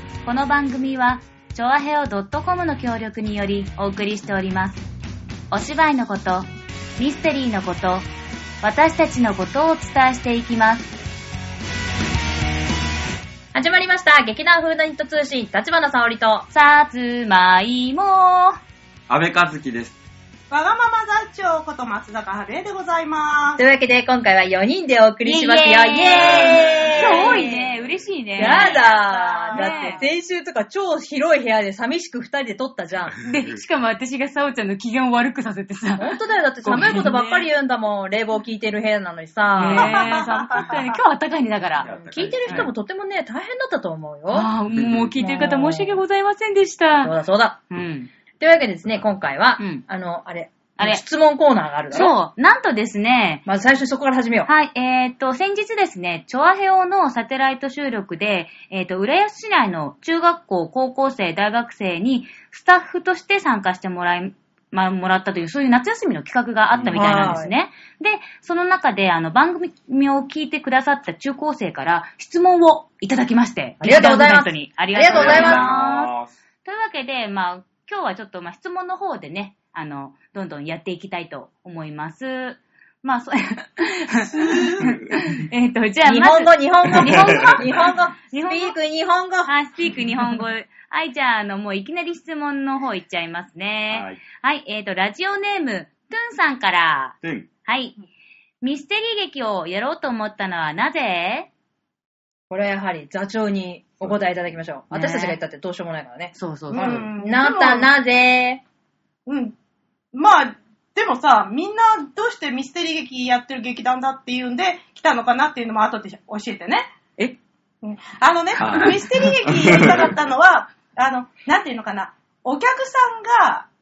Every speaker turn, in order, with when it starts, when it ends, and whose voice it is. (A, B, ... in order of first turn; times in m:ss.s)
0:00.2-0:04.8 A
0:05.5-0:08.1 A
0:08.6-0:10.9 A
0:13.5-0:16.5 B
0:16.5-0:18.6 A
0:19.1-0:20.0 C
0:20.5-0:23.6 D
0:23.6-0:27.7 B
0:25.2-0:29.0 A
0:26.1-0:28.1 C
0:26.9-0:27.5 D
0:28.4-0:30.0 D
0:28.4-0:33.2 B
0:29.5-0:30.0 A
0:33.2-0:37.5 A
0:36.0-0:40.4 B
0:39.6-0:41.9 A
0:39.9-0:40.3 D
0:41.7-0:42.8 C
0:41.9-0:44.5 B
0:44.3-0:47.2 A
0:44.7-0:45.2 C
0:45.2-0:46.0 B
0:47.0-0:47.6 B
0:47.7-0:48.1 A
0:48.4-0:52.2 B
0:49.6-0:49.8 A
0:51.9-0:53.4 A
0:53.5-0:54.5 B
0:54.5-1:16.1 A
1:06.7-1:07.4 C
1:06.9-1:07.5 B
1:13.8-1:15.7 B
1:15.0-1:16.4 C
1:16.6-1:28.8 A
1:24.3-1:25.0 D
1:24.8-1:25.2 C
1:26.0-1:29.5 B
1:27.0-1:27.6 C
1:29.5-1:38.0 A
1:33.9-1:34.2 C
1:37.2-1:37.5 C
1:38.6-1:41.5 A
1:42.5-1:48.6 B
1:44.9-1:45.4 A
1:46.4-1:47.0 A
1:46.7-1:47.9 D
1:49.3-1:49.6 D
1:50.1-1:56.9 D
1:57.8-2:03.7 D
1:58.6-2:00.1 C